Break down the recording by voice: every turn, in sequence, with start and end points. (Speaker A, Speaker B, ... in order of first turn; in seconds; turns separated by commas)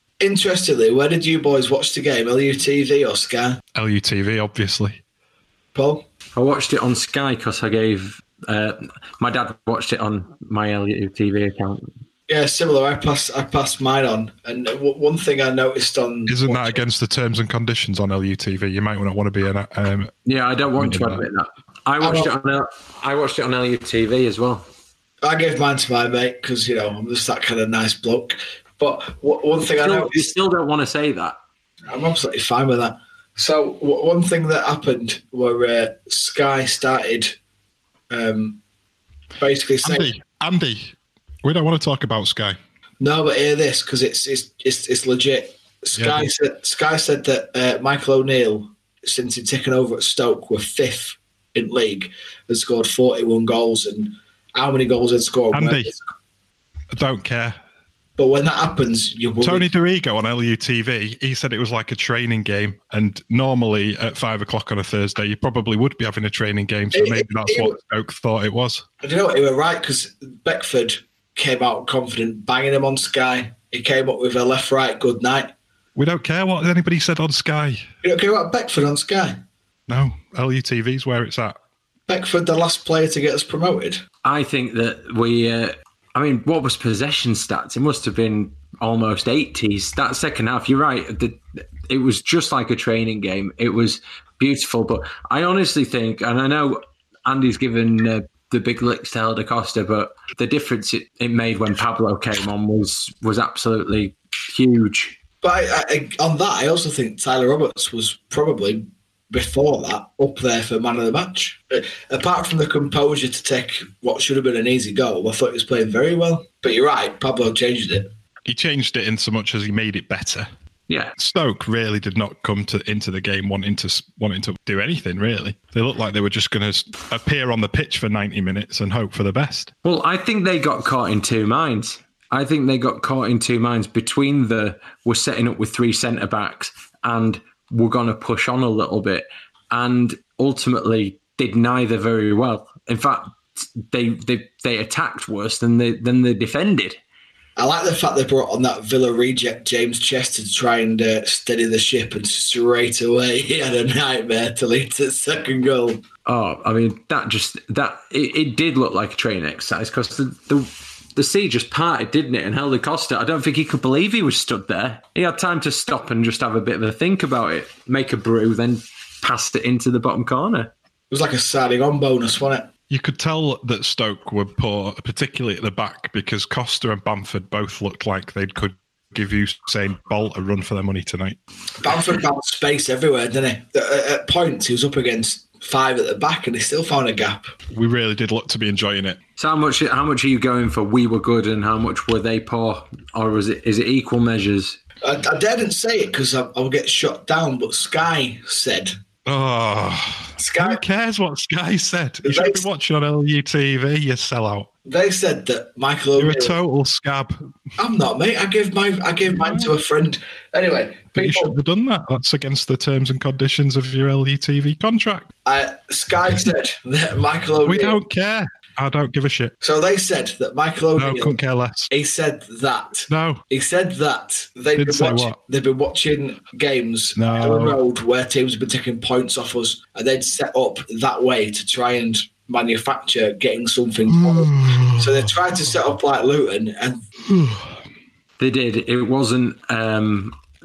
Speaker A: 0.2-3.6, Speaker B: 3.7-5.0, Speaker A: 5.7-6.0, Speaker C: 6.3-11.9, Speaker A: 12.3-16.8, Speaker B: 16.3-20.1, Speaker C: 20.2-24.7, Speaker B: 20.6-21.2, Speaker A: 22.0-22.3, Speaker A: 25.2-30.3, Speaker C: 29.8-31.4, Speaker A: 31.9-37.4, Speaker A: 38.1-38.6, Speaker A: 39.4-40.1, Speaker B: 39.8-42.5, Speaker A: 43.0-56.1, Speaker B: 45.9-46.3, Speaker B: 55.5-55.9, Speaker B: 56.9-57.6, Speaker A: 58.2-59.7, Speaker B: 59.4-68.8, Speaker A: 66.9-67.8, Speaker A: 69.0-75.5, Speaker B: 76.0-77.8, Speaker A: 78.0-79.4, Speaker B: 79.9-81.6, Speaker A: 82.1-84.0, Speaker C: 84.2-105.2, Speaker A: 105.4-118.1, Speaker B: 118.5-120.5, Speaker C: 120.9-121.1, Speaker B: 121.2-129.7, Speaker C: 129.8-147.0, Speaker A: 147.6-156.0, Speaker C: 156.2-170.7, Speaker A: 171.1-172.7, Speaker B: 172.9-181.4, Speaker A: 181.8-187.5, Speaker B: 187.7-189.2, Speaker C: 189.4-194.8, Speaker A: 195.0-198.9, Speaker B: 199.2-204.7, Speaker A: 200.4-200.8, Speaker A: 202.2-202.7, Speaker A: 204.8-206.6, Speaker B: 206.2-207.4, Speaker A: 207.8-211.5, Speaker B: 209.4-209.7, Speaker B: 211.1-215.3, Speaker A: 215.4-218.0, Speaker B: 217.7-219.5, Speaker A: 219.6-221.3, Speaker B: 220.9-221.9, Speaker A: 221.9-237.0, Speaker B: 223.1-223.4, Speaker B: 224.8-225.3, Speaker B: 227.2-227.8, Speaker B: 234.1-235.3, Speaker B: 237.3-237.7, Speaker C: 238.4-240.3